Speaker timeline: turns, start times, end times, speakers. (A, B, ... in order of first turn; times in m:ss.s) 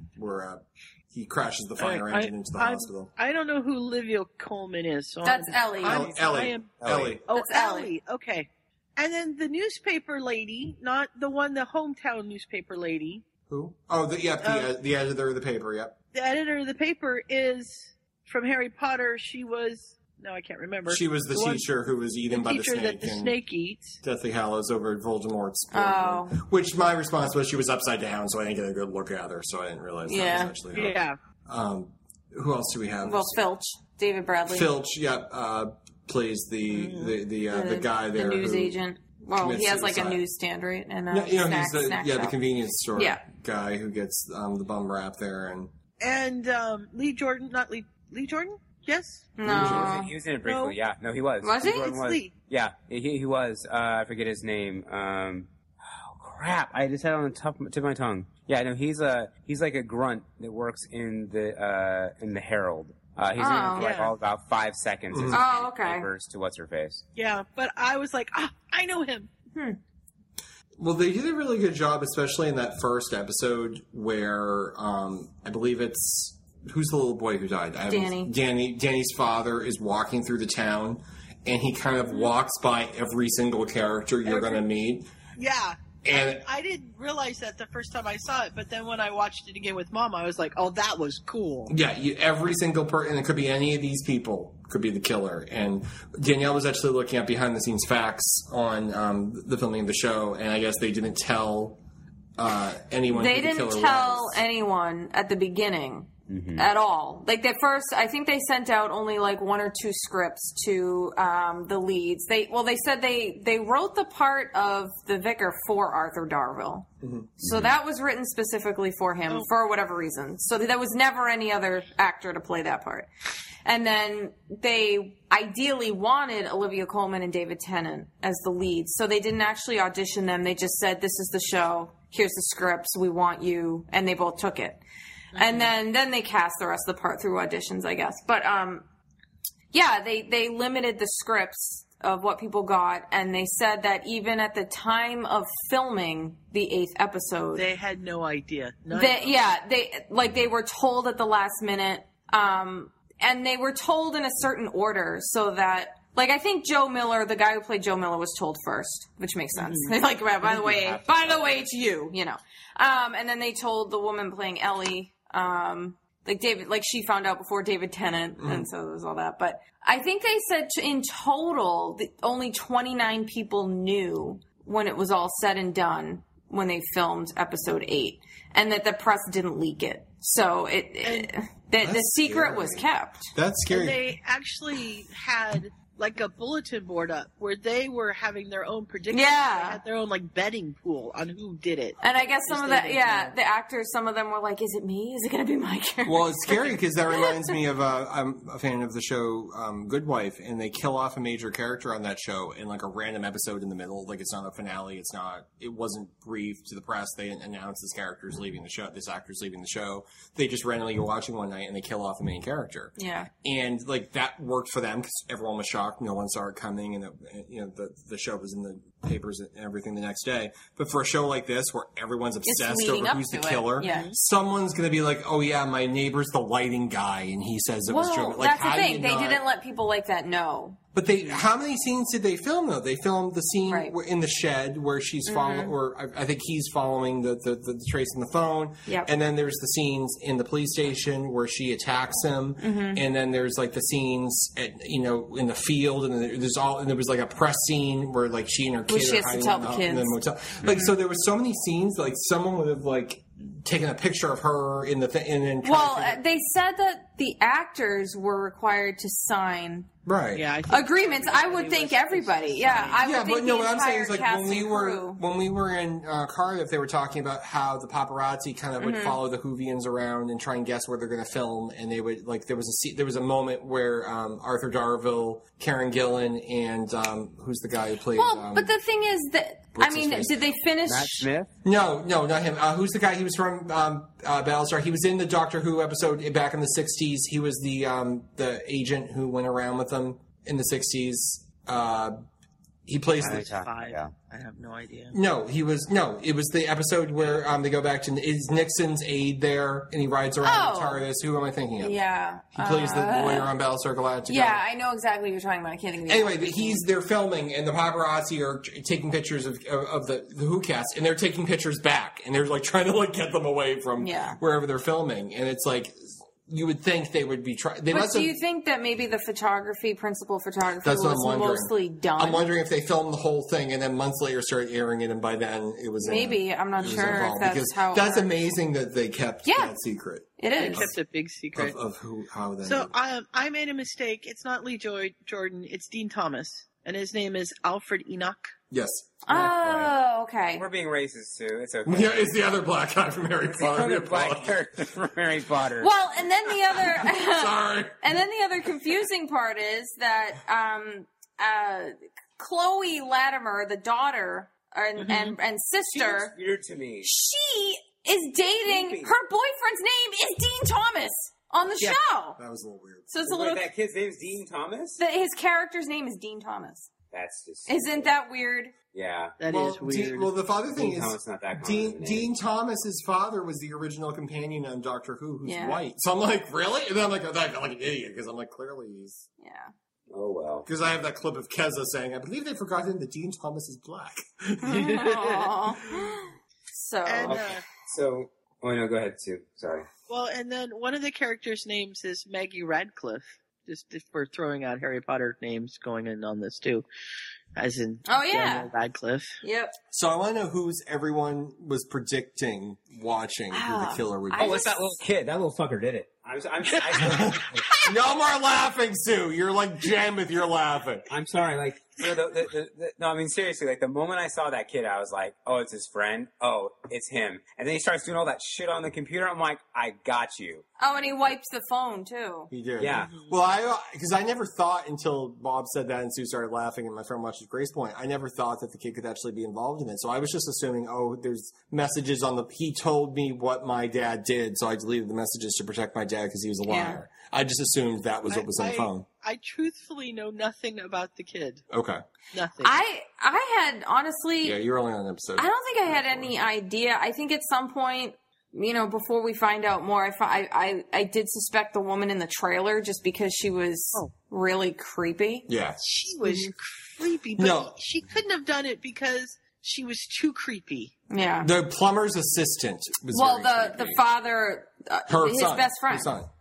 0:00.2-0:03.1 A
0:01.8-0:13.3 B
0:05.2-0:06.1 C
0:05.8-0:07.2 A
0:06.8-0:07.2 D
0:07.3-0:07.9 C
0:13.5-0:16.0 A
0:14.4-0:14.7 B
0:16.1-0:21.7 B
0:20.9-0:23.4 A
0:22.3-0:24.0 B
0:24.0-0:33.4 A
0:25.7-0:26.4 C
0:30.1-0:30.6 C
0:30.7-0:31.2 B
0:33.0-0:34.7 C
0:34.5-0:38.8 A
0:36.7-0:37.2 B
0:37.5-0:42.4 C
0:39.4-0:40.2 A
0:41.1-0:45.7 A
0:43.0-0:43.2 C
0:46.0-0:49.3 B
0:49.4-0:50.1 C
0:49.4-0:50.0 A
0:49.4-1:07.0 D
0:50.4-0:50.8 B
0:51.4-0:52.0 C
0:51.7-0:52.3 B
1:03.4-1:03.9 C
1:03.8-1:04.1 B
1:05.1-1:05.4 A
1:05.3-1:06.1 C
1:07.2-1:09.3 B
1:09.5-1:09.8 C
1:10.8-1:25.1 A
1:17.9-1:18.3 C
1:24.2-1:24.7 B
1:25.4-1:31.7 B
1:26.0-1:26.5 A
1:31.7-1:41.8 A
1:42.4-1:44.4 A
1:43.1-1:56.9 C
1:46.3-1:46.7 D
1:57.0-1:57.3 A
1:57.4-2:03.1 C
1:57.4-1:57.8 D
2:03.6-2:14.8 C
2:15.4-2:15.7 B
2:15.4-2:18.9 C
2:19.7-2:27.7 C
2:27.6-2:29.5 B
2:28.9-3:03.3 C
2:39.6-2:40.0 B
2:40.4-2:41.7 D
2:48.4-2:48.7 A
3:01.0-3:01.3 B
3:01.8-3:04.0 A
3:03.7-3:13.4 B
3:09.1-3:09.8 C
3:12.0-3:17.5 C
3:16.0-3:49.4 A
3:33.0-3:33.3 C
3:42.4-3:44.1 C
3:43.8-3:44.2 B
3:47.9-3:50.8 C
3:51.0-4:16.2 A
3:53.7-3:53.9 C
3:55.3-3:55.7 C
4:02.6-4:03.0 C
4:08.9-4:10.9 C
4:15.6-4:19.9 C
4:20.1-4:20.4 A
4:20.3-4:23.0 B
4:20.7-4:25.2 C
4:23.0-4:38.7 A
4:28.8-4:29.2 C
4:38.2-4:41.3 C
4:39.8-4:40.4 A
4:40.8-4:41.5 D
4:41.6-4:52.2 A
4:52.9-4:53.5 A
4:53.2-4:54.1 D
4:53.2-4:55.2 B
4:55.1-5:02.0 A
5:00.4-5:01.0 C
5:01.8-5:03.5 C
5:02.5-5:04.6 A
5:04.3-5:06.8 C
5:06.1-5:18.3 A
5:14.0-5:14.4 C
5:17.9-5:22.4 C
5:20.8-5:30.9 A
5:26.0-5:28.3 C
5:29.5-5:29.8 C
5:30.4-5:30.9 C
5:30.6-5:31.8 B
5:31.6-5:32.9 A
5:32.6-5:38.5 B
5:38.7-5:39.9 A
5:39.3-5:40.7 C
5:40.6-5:42.5 D
5:41.9-5:44.6 A
5:43.5-5:46.0 D
5:45.8-5:56.3 C
5:47.0-5:48.2 A
5:55.0-5:55.4 B
5:55.9-5:57.1 D
5:57.0-6:02.4 C
5:58.6-5:59.2 D
6:02.4-6:03.2 A
6:03.1-6:03.6 C
6:03.3-6:05.0 D
6:05.0-6:06.9 C
6:07.1-6:08.1 D
6:07.7-6:08.7 C
6:08.9-6:09.4 D
6:09.4-6:10.3 B
6:09.5-6:19.3 A
6:10.8-6:12.3 D
6:15.4-6:15.8 C
6:19.4-6:19.7 C
6:20.1-6:20.7 D
6:20.7-6:25.4 A
6:24.6-6:27.4 C
6:27.0-6:27.6 B
6:27.2-6:29.9 D
6:30.1-6:36.9 B
6:37.6-6:39.4 B
6:38.1-6:38.7 C
6:39.4-6:39.8 C
6:39.9-6:44.6 A
6:43.5-6:45.0 C
6:44.4-6:47.7 D
6:46.8-6:47.9 B
6:47.0-6:51.1 A
6:51.1-7:00.7 D
7:00.8-7:02.5 C
7:02.5-7:19.1 A
7:02.8-7:03.1 D
7:03.0-7:03.4 B
7:16.7-7:17.0 C
7:18.3-7:21.6 B
7:21.7-7:22.0 A
7:22.3-7:22.8 B
7:22.6-7:24.6 C
7:24.4-7:26.3 A
7:25.4-7:35.6 C
7:35.5-7:35.8 A
7:35.8-7:41.0 B
7:37.4-7:37.8 A
7:41.1-7:41.5 C
7:41.4-7:44.0 A
7:43.1-7:46.1 C
7:45.1-7:46.3 A